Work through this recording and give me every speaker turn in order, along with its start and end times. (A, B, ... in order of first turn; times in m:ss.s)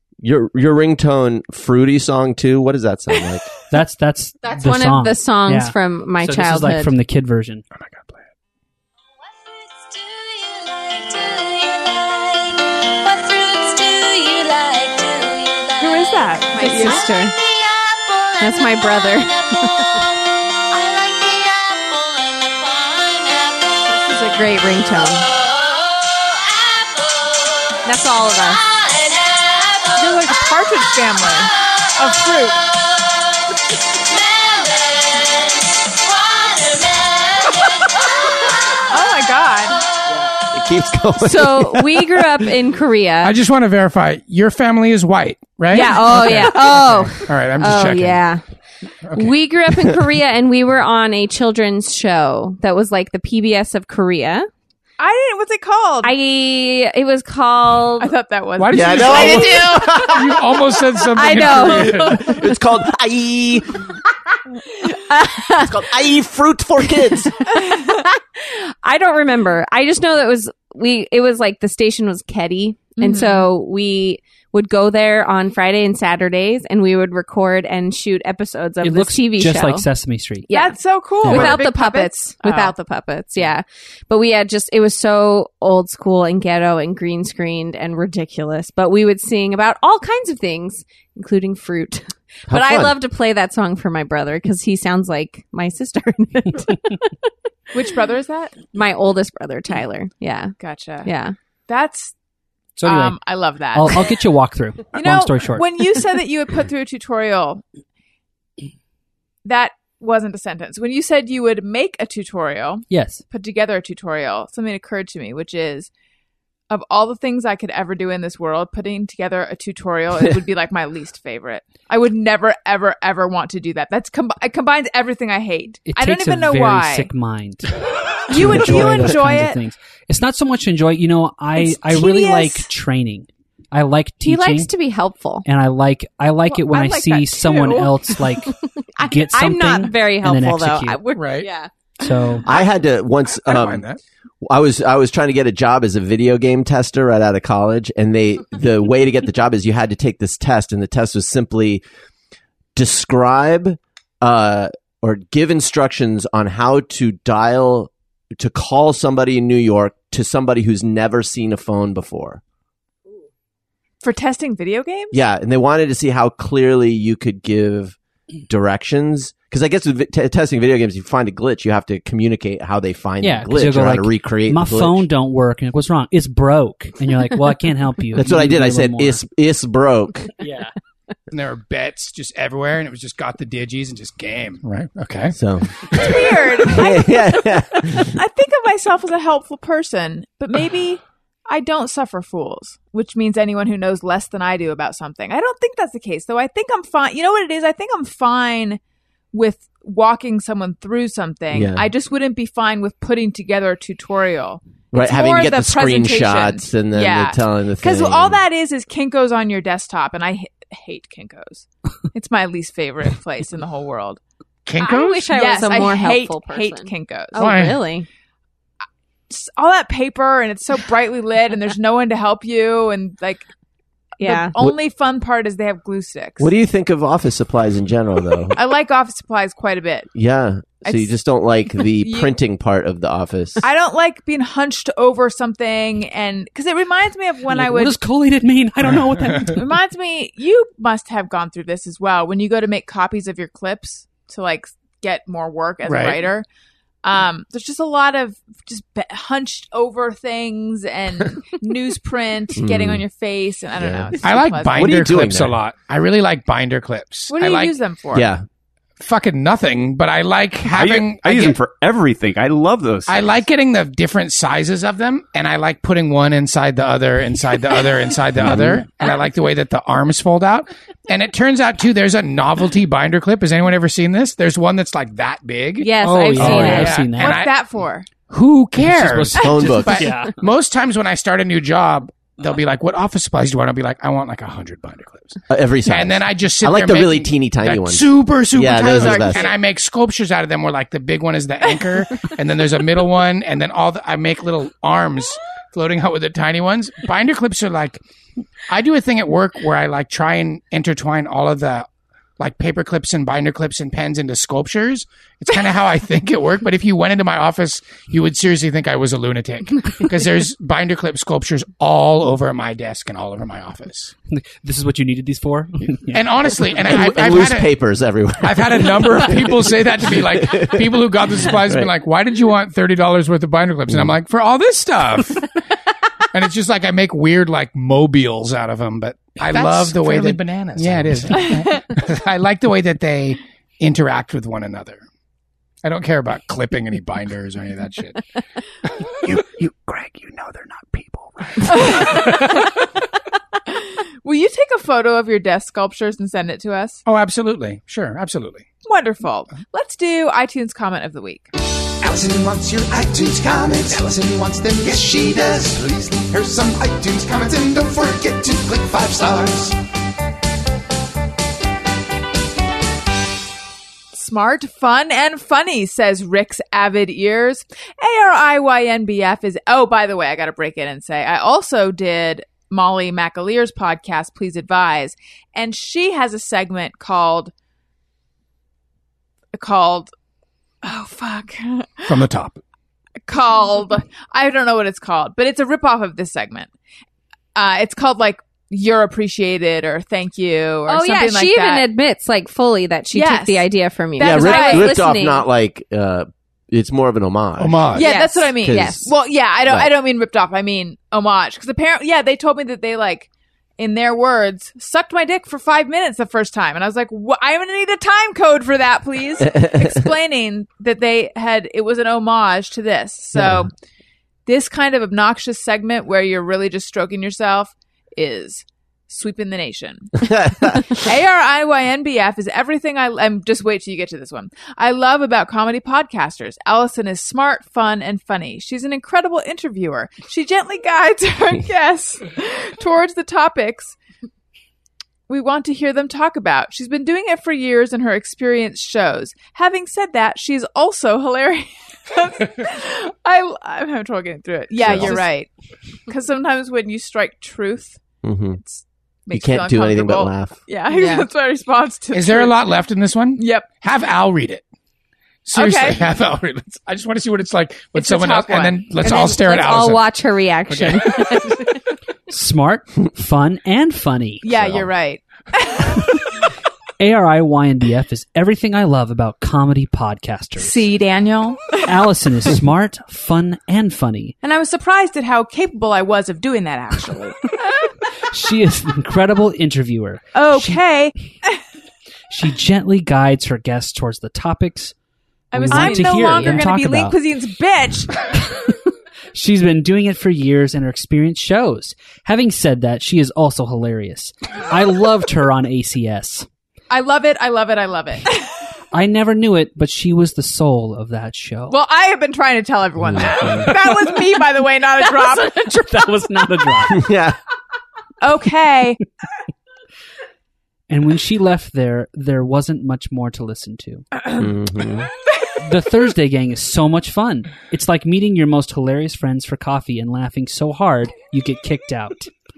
0:00.2-0:03.5 A
0:03.7-0:07.6 B
0:04.4-0:06.9 C
0:07.8-0:08.2 D
0:13.6-0:17.3 C
0:15.8-0:17.1 E
0:18.4-0:20.0 C
0:23.9-0:25.3 C
0:27.8-0:28.6 C
0:29.9-0:32.6 E
0:38.9-0:39.8 E
0:40.4-0:42.4 A
0:41.2-0:43.3 C
0:43.2-0:48.2 D
0:45.7-0:48.4 C
0:49.0-0:49.3 D
0:49.1-0:54.5 C
0:55.0-0:56.1 E
0:56.0-0:58.1 C
0:58.0-0:59.9 E
0:58.6-1:02.2 D
0:58.7-1:00.5 A
1:01.1-1:02.3 C
1:01.4-1:03.9 A
1:04.9-1:05.7 C
1:05.5-1:07.4 A
1:07.4-1:19.9 C
1:07.7-1:08.0 E
1:13.0-1:13.5 E
1:18.8-1:20.5 B
1:20.4-1:37.1 C
1:20.5-1:22.7 E
1:21.3-1:21.5 B
1:32.5-1:33.0 A
1:37.7-1:38.6 E
1:38.7-1:41.3 C
1:40.6-1:41.1 E
1:41.7-1:42.1 E
1:42.8-1:43.2 B
1:42.8-1:44.2 E
1:43.7-1:46.0 B
1:44.9-1:47.6 E
1:49.4-1:55.9 E
1:52.9-1:53.2 B
1:56.7-2:07.1 E
2:05.9-2:14.7 B
2:08.3-2:09.6 E
2:11.6-2:12.7 E
2:14.2-2:15.4 C
2:15.4-2:21.0 B
2:16.5-2:18.4 E
2:18.9-2:21.7 C
2:21.1-2:21.5 D
2:22.0-2:22.4 B
2:22.4-2:23.8 A
2:23.4-2:24.0 D
2:24.4-2:31.8 A
2:32.8-2:42.4 A
2:44.0-2:45.2 E
2:45.1-2:55.0 A
2:53.2-2:59.2 B
2:58.1-3:00.3 A
3:00.4-3:00.7 B
3:01.3-3:05.4 D
3:05.3-3:08.1 A
3:05.9-3:18.8 E
3:19.3-3:34.2 E
3:21.5-3:21.9 A
3:24.9-3:28.4 A
3:34.6-3:35.3 D
3:34.8-3:38.1 C
3:35.1-3:37.5 E
3:37.4-3:37.8 D
3:39.3-3:43.5 E
3:44.2-3:44.5 C
3:44.2-3:46.5 E
3:46.4-3:48.6 A
3:48.5-3:50.1 E
3:50.1-3:53.6 A
3:50.8-3:51.1 E
3:51.7-3:52.4 E
3:53.6-3:58.0 E
3:57.5-3:59.6 B
3:59.5-4:06.4 E
4:05.8-4:06.2 D
4:07.0-4:15.0 E
4:12.6-4:13.0 A
4:13.8-4:14.2 A
4:14.2-4:17.7 D
4:14.7-4:15.6 A
4:17.3-4:18.3 E
4:18.1-4:18.4 A
4:19.0-4:21.6 D
4:20.6-4:23.3 F
4:23.1-4:37.5 D
4:28.4-4:28.8 A
4:35.8-4:37.0 C
4:36.0-4:37.4 B
4:37.0-4:38.1 E
4:38.3-4:58.0 D
4:38.8-4:40.3 B
4:39.1-4:40.1 A
4:45.5-4:49.5 A
4:48.7-4:49.6 E
4:58.7-5:01.9 D
5:02.4-5:14.1 D
5:14.3-5:16.3 B
5:16.1-5:17.7 D
5:16.8-5:21.9 A
5:18.4-5:25.5 D
5:26.3-5:35.0 D
5:30.8-5:31.1 A
5:31.3-5:31.8 E
5:35.8-5:38.2 D
5:39.1-5:42.4 D
5:41.7-5:42.6 E
5:43.7-5:47.0 E
5:47.0-5:48.6 D
5:48.8-5:51.5 E
5:52.0-5:59.8 G
6:04.1-6:17.5 E
6:19.5-6:20.1 E
6:20.8-6:22.2 E
6:22.1-6:22.6 D
6:23.3-6:26.7 E
6:27.5-6:31.8 E
6:30.9-6:35.4 C
6:33.1-6:33.6 E
6:34.2-6:35.0 E
6:34.2-6:38.0 A
6:37.6-6:38.0 D
6:37.9-6:53.7 E
6:38.0-6:39.0 C
6:38.6-6:39.1 A
6:49.4-6:50.1 A
6:53.4-6:53.6 A
6:54.4-7:14.0 E
7:00.3-7:00.8 A
7:15.3-7:25.5 E
7:24.8-7:25.2 A
7:26.1-7:28.0 E
7:28.2-7:28.6 A
7:28.6-7:32.6 E
7:29.3-7:30.6 A
7:30.9-7:31.3 C
7:32.1-7:34.6 D
7:33.4-7:33.7 E
7:35.4-7:40.0 D
7:35.5-7:36.0 E
7:37.9-7:39.0 E
7:39.0-7:41.7 C
7:40.7-7:41.3 D
7:42.3-7:44.4 B
7:44.4-7:46.1 E
7:47.0-7:50.9 B
7:50.6-7:51.9 E
7:51.8-7:54.3 B
7:54.4-7:57.4 E
7:58.3-8:00.8 B
8:00.3-8:01.6 E
8:02.3-8:04.9 B
8:05.5-8:08.2 E
8:05.5-8:07.2 B
8:09.3-8:16.5 B
8:16.9-8:18.5 E
8:18.9-8:21.8 B
8:21.7-8:25.6 E
8:23.0-8:23.7 A
8:23.2-8:24.3 B
8:25.0-8:27.1 B
8:26.9-8:27.4 A
8:28.2-8:29.0 E
8:30.9-8:34.0 B
8:34.2-8:34.4 E
8:34.4-8:35.1 A
8:35.6-8:42.3 B